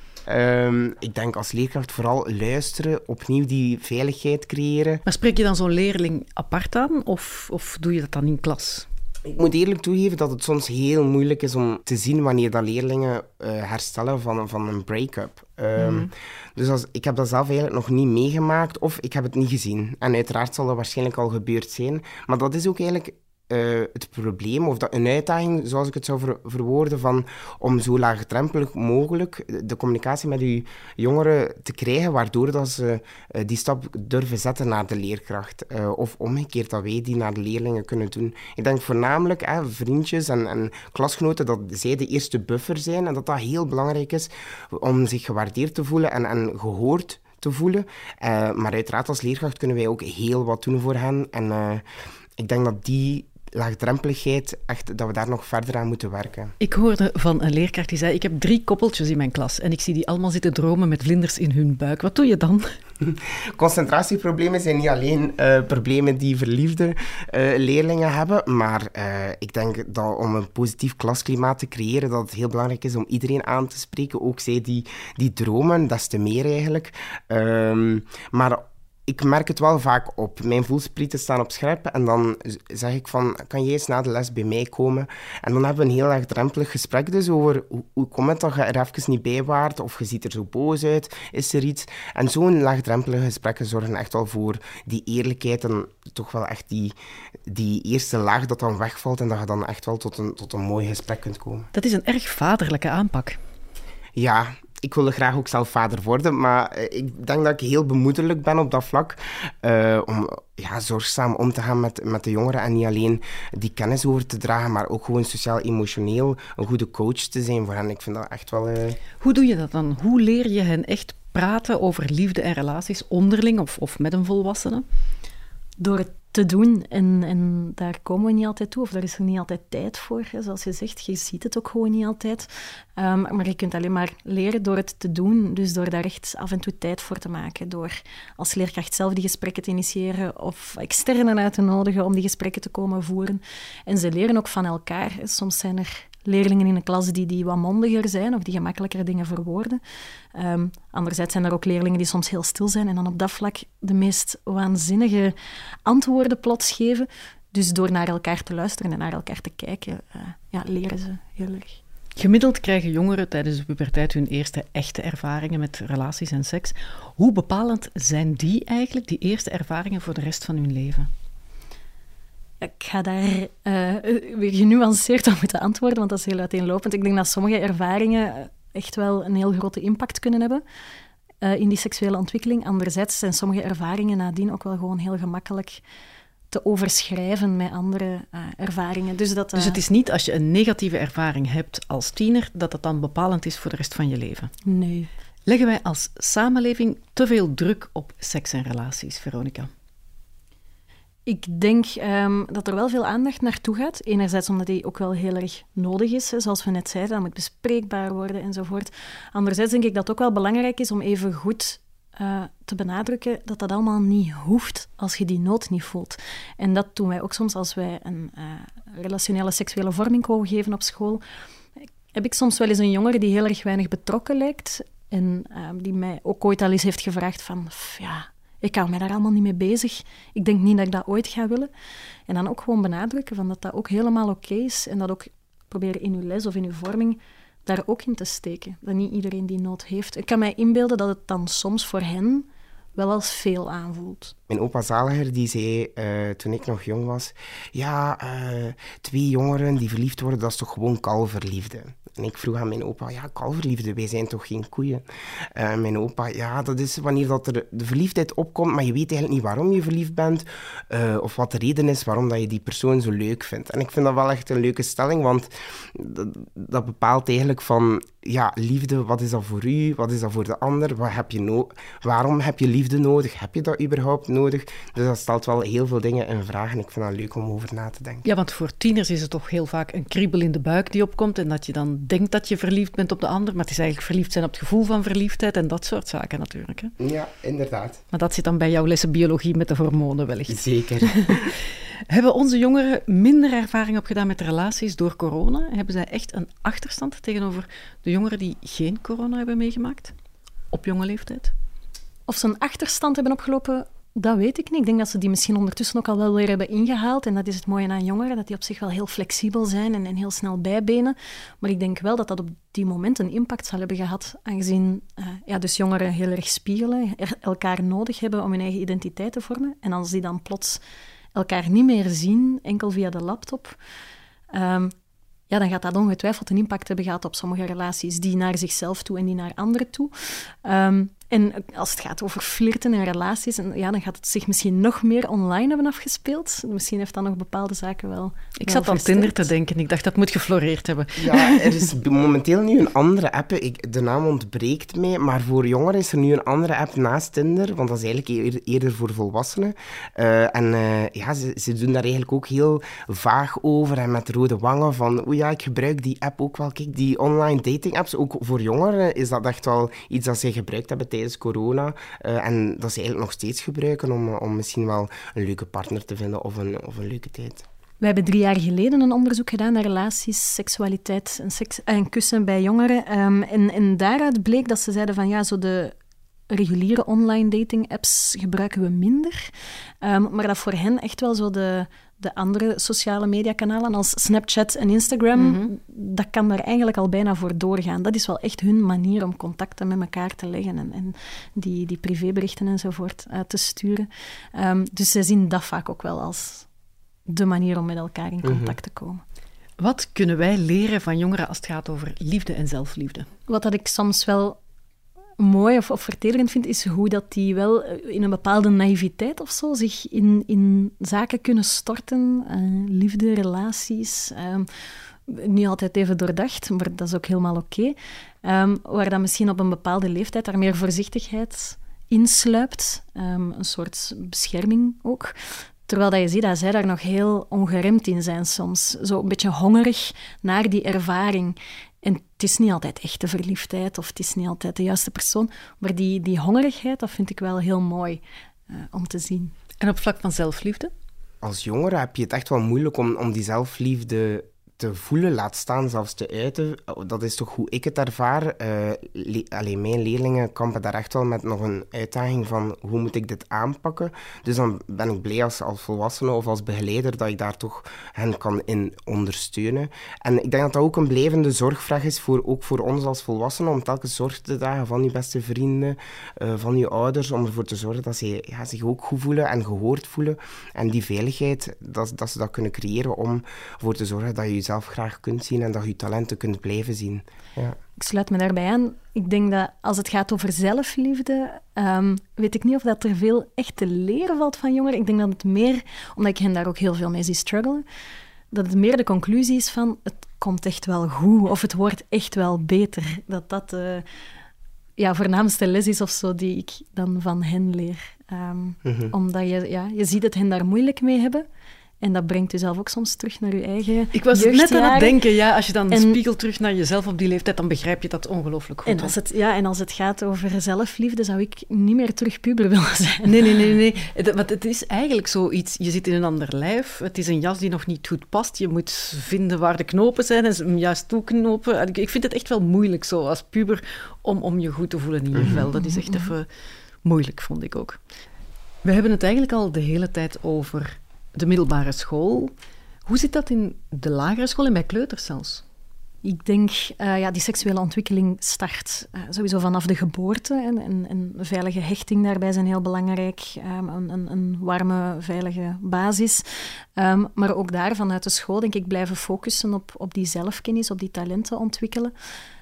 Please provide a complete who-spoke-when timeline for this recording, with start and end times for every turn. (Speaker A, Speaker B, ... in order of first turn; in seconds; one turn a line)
Speaker A: 0.3-5.0
Speaker B: 5.1-8.9
Speaker A: 9.2-51.8
Speaker B: 15.8-16.1
Speaker A: 52.4-56.5
Speaker B: 56.6-62.7
Speaker A: 63.0-96.9
Speaker A: 97.5-101.7
Speaker B: 101.7-103.4
Speaker A: 104.2-119.0
Speaker B: 119.2-124.8
Speaker C: 125.8-149.8
Speaker C: 150.3-155.3
Speaker C: 155.8-161.8
Speaker B: 162.2-171.1
Speaker C: 172.6-180.6
Speaker C: 181.4-185.8
Speaker C: 186.5-189.8
Speaker B: 189.5-194.5
Speaker C: 194.6-195.1
Speaker B: 195.4-199.7
Speaker C: 201.2-221.2
Speaker C: 222.1-231.7
Speaker C: 232.3-244.3
Speaker A: 244.5-278.3
Speaker B: 278.2-286.9
Speaker A: 287.0-288.0
Speaker B: 288.1-300.1
Speaker A: 290.5-291.6
Speaker B: 300.7-301.5
Speaker C: 302.3-320.8
Speaker C: 321.3-323.8
Speaker C: 324.5-324.9
Speaker C: 325.5-339.5
Speaker B: 338.6-341.9
Speaker A: 341.2-367.6
Speaker C: 368.0-375.9
Speaker C: 376.5-379.5
Speaker C: 380.0-396.7
Speaker B: 385.4-385.7
Speaker C: 397.2-399.2
Speaker A: 398.4-398.8
Speaker B: 399.8-403.3
Speaker C: 403.5-404.6
Speaker C: 405.4-414.7
Speaker C: 415.3-425.3
Speaker C: 425.9-439.6
Speaker B: 439.8-440.9
Speaker A: 441.4-477.8
Speaker C: 478.0-487.8
Speaker C: 488.5-494.0
Speaker C: 495.0-501.4
Speaker A: 498.9-499.1
Speaker C: 502.0-505.2
Speaker B: 504.1-509.1
Speaker C: 505.9-506.2
Speaker C: 508.9-513.8
Speaker B: 513.3-526.5
Speaker C: 525.7-526.3
Speaker B: 527.0-528.0
Speaker B: 528.8-532.5
Speaker B: 533.0-535.6
Speaker C: 536.2-552.1